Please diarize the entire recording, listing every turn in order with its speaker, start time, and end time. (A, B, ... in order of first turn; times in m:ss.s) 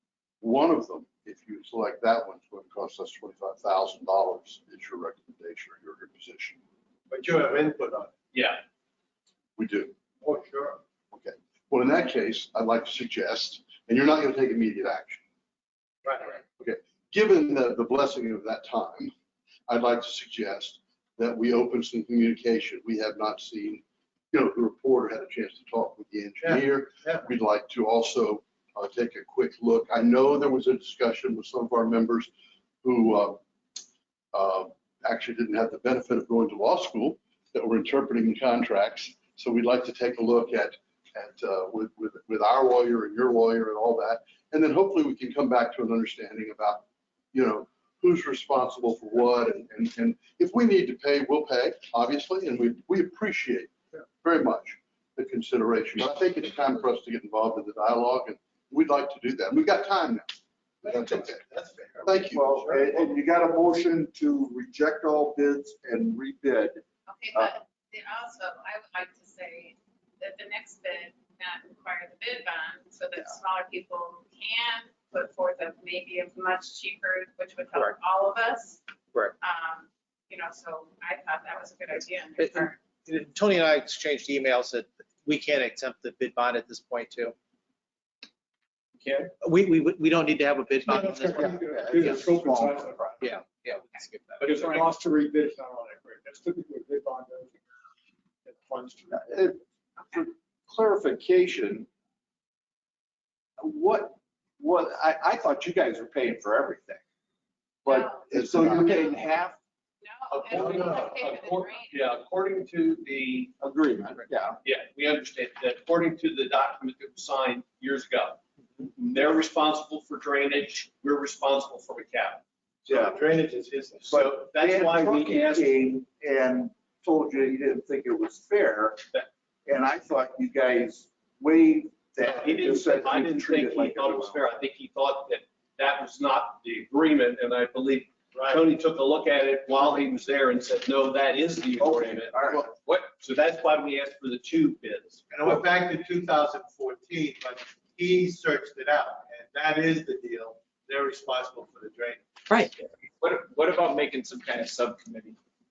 0:00.4-0:06.6 A
0:07.1-0:08.1 B
0:08.3-0:08.6 C
0:09.6-0:09.9 A
0:10.2-0:10.8 B
0:11.1-0:15.2 A
0:16.0-0:16.4 B
0:16.6-0:19.1 A
0:19.7-0:32.3 A
0:26.4-0:27.2 B
0:32.8-0:33.4 A
0:34.3-1:01.4 A
1:00.8-1:02.9 B
1:02.1-1:02.5 A
1:02.3-1:06.8 D
1:07.1-1:18.8 E
1:19.4-1:22.8 E
1:22.4-1:27.3 F
1:29.4-1:32.2 F
1:30.9-1:33.2 G
1:31.3-1:33.1 D
1:33.2-1:34.9 F
1:34.4-1:37.6 G
1:38.4-1:39.2 G
1:39.2-1:39.6 D
1:40.1-1:41.9 D
1:43.6-1:47.0 D
1:47.8-1:49.6 D
1:47.9-1:49.2 E
1:50.0-1:51.9 E
1:50.3-1:53.5 C
1:53.6-1:54.6 D
1:54.6-1:58.4 C
1:59.0-2:02.4 C
2:02.8-2:04.2 B
2:02.9-2:03.2 D
2:04.1-2:09.0 D
2:04.1-2:05.7 C
2:09.7-2:14.4 D
2:12.2-2:25.2 C
2:18.3-2:18.6 B
2:21.8-2:22.7 D
2:25.3-2:32.2 B
2:32.6-2:35.4 H